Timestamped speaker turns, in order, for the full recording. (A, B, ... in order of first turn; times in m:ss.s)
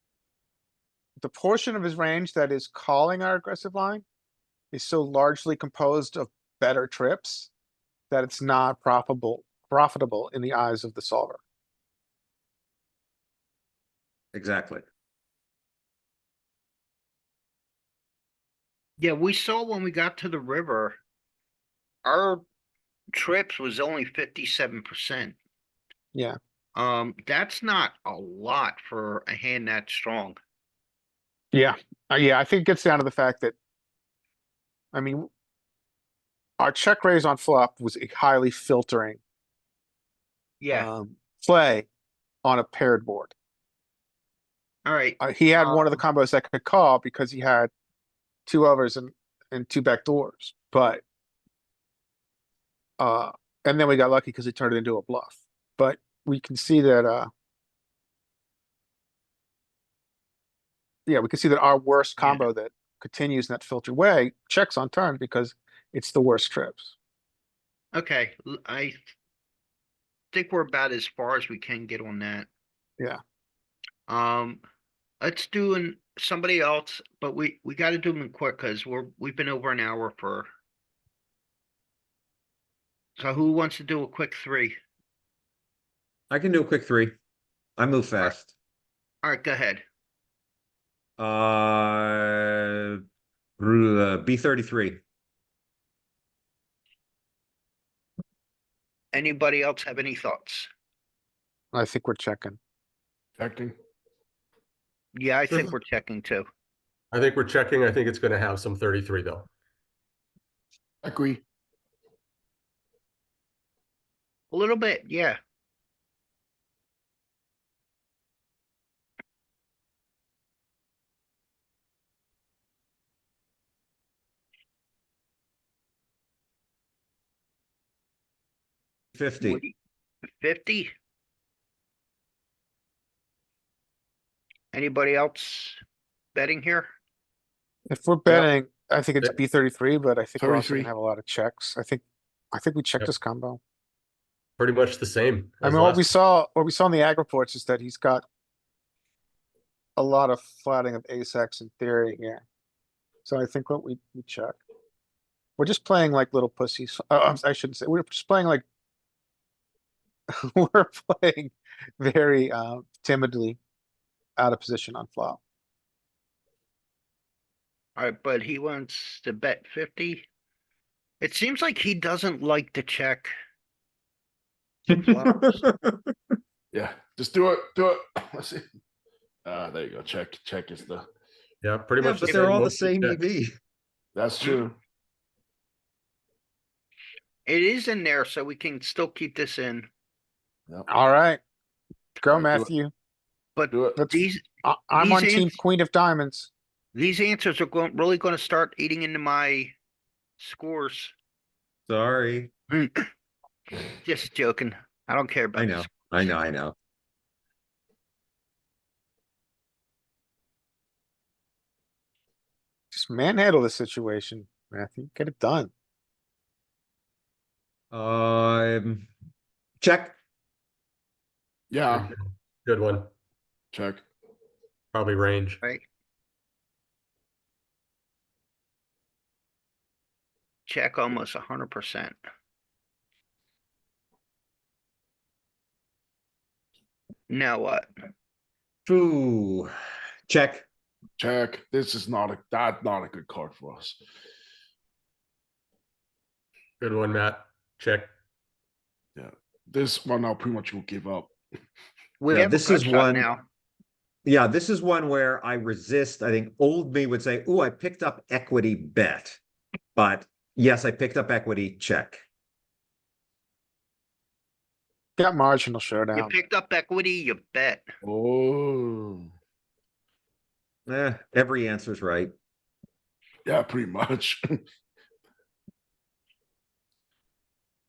0:01.2-0:04.0 A
0:04.7-0:07.5 A
0:08.1-0:11.4 A
0:14.3-0:14.8 B
0:19.0-0:21.0 C
0:22.0-0:22.4 C
0:23.1-0:25.4 C
0:26.8-0:30.4 C
0:31.5-0:33.6 A
0:34.9-0:35.3 A
0:36.6-0:39.2 A
0:40.6-0:40.9 C
0:40.7-0:41.9 A
0:42.4-0:43.3 A
0:44.9-0:46.0 C
0:45.2-0:47.7 A
0:48.4-0:51.0 A
0:53.0-0:57.3 A
1:01.0-1:06.9 A
1:02.2-1:02.4 C
1:07.9-1:09.0 C
1:10.3-1:12.5 C
1:14.1-1:14.6 C
1:15.2-1:20.5 C
1:23.2-1:24.8 C
1:26.3-1:27.1 B
1:27.8-1:28.5 B
1:29.2-1:29.8 C
1:31.2-1:33.0 B
1:33.6-1:35.0 B
1:39.1-1:40.7 C
1:41.7-1:42.6 A
1:43.4-1:43.7 D
1:45.1-1:46.4 C
1:47.1-1:49.5 E
1:51.0-1:51.4 D
1:54.5-1:55.4 C
2:09.2-2:09.6 B
2:09.4-2:09.8 C
2:10.3-2:10.9 C
2:14.7-2:15.8 C
2:16.3-2:16.9 C
2:17.9-2:23.6 A
2:20.4-2:20.9 D
2:24.6-2:26.1 E
2:25.6-2:28.2 A
2:30.0-2:32.4 A
2:33.2-2:34.6 A
2:35.6-2:38.6 A
2:40.4-2:43.6 A
2:44.4-2:45.4 A
2:48.0-2:50.3 C
2:51.2-2:53.3 C
2:54.9-2:55.6 C
2:54.9-2:56.2 B
2:56.7-2:58.6 D
2:59.4-3:01.1 D
3:01.6-3:03.2 E
3:02.0-3:03.5 B
3:02.3-3:02.6 C
3:04.2-3:04.8 D
3:07.5-3:09.9 C
3:10.9-3:11.4 A
3:12.2-3:12.9 A
3:12.3-3:12.7 D
3:13.6-3:15.6 C
3:13.7-3:14.0 D
3:14.0-3:16.5 A
3:17.0-3:19.8 C
3:20.4-3:21.1 C
3:21.9-3:22.5 B
3:22.7-3:23.1 C
3:24.0-3:26.3 C
3:25.6-3:26.8 B
3:32.9-3:35.7 A
3:37.9-3:39.1 B
3:39.8-3:40.2 B
3:41.7-3:42.1 D
3:41.9-3:43.1 E
3:43.7-3:44.0 D
3:44.9-3:45.6 E
3:50.7-3:52.2 C
3:57.3-3:57.9 C
3:58.9-3:59.7 B
4:00.3-4:00.7 B
4:01.2-4:04.0 D
4:06.8-4:08.1 E
4:09.2-4:11.3 D
4:12.2-4:13.4 C
4:12.3-4:13.3 B
4:14.2-4:19.4 B
4:20.0-4:22.2 B
4:25.2-4:26.3 A
4:26.1-4:27.8 C
4:28.0-4:29.3 D
4:30.9-4:32.3 B
4:33.4-4:34.6 D